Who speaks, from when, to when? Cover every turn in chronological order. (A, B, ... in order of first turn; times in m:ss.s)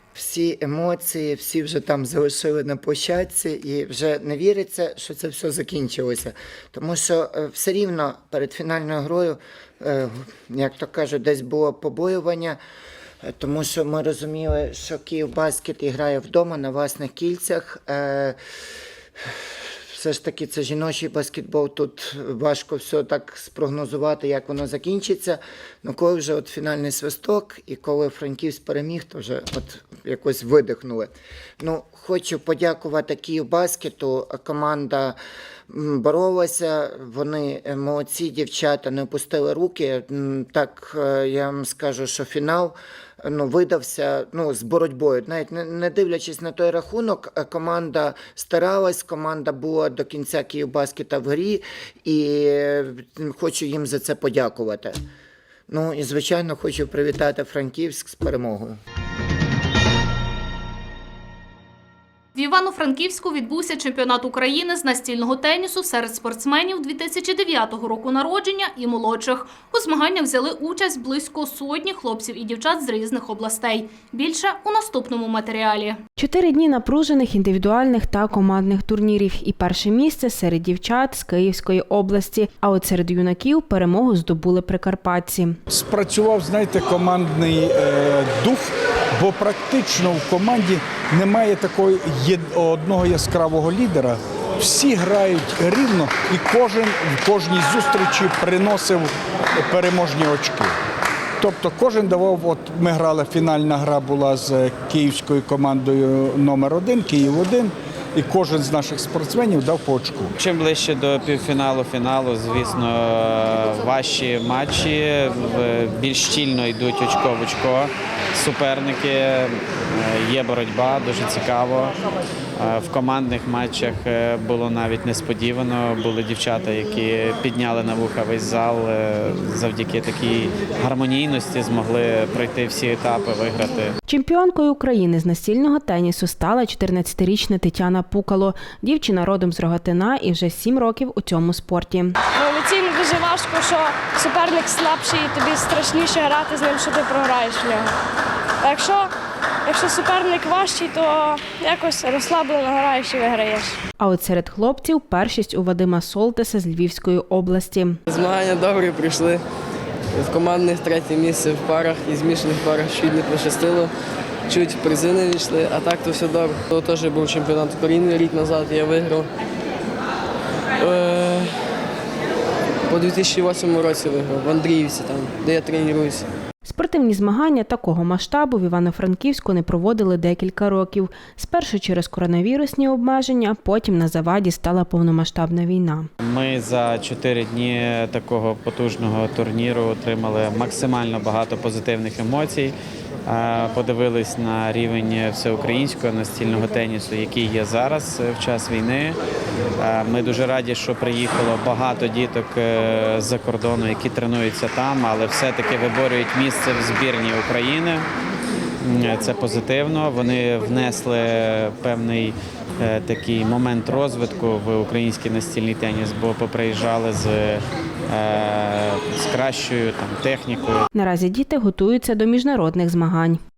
0:00.1-0:12.6 A
0:13.2-0:18.4 A
0:19.9-0:35.2 A
0:35.7-0:55.0 A
0:55.7-0:58.8 A
1:02.3-1:16.0 B
1:16.2-1:25.6 C
1:25.7-1:40.7 D
1:41.4-1:50.3 D
1:50.4-2:01.9 E
2:02.6-2:14.0 E
2:14.0-2:22.2 C
2:22.3-2:27.9 F
2:28.6-2:29.1 F
2:29.6-2:33.8 F
2:34.0-2:38.0 C
2:38.1-2:39.4 G
2:40.2-2:43.9 G
2:44.5-2:49.3 G
2:50.8-2:51.6 G
2:52.9-2:56.3 G
2:56.6-3:06.1 C
3:06.2-3:12.7 E
3:13.2-3:19.2 E
3:19.8-3:28.1 E
3:28.8-3:40.8 E
3:40.9-3:43.4 C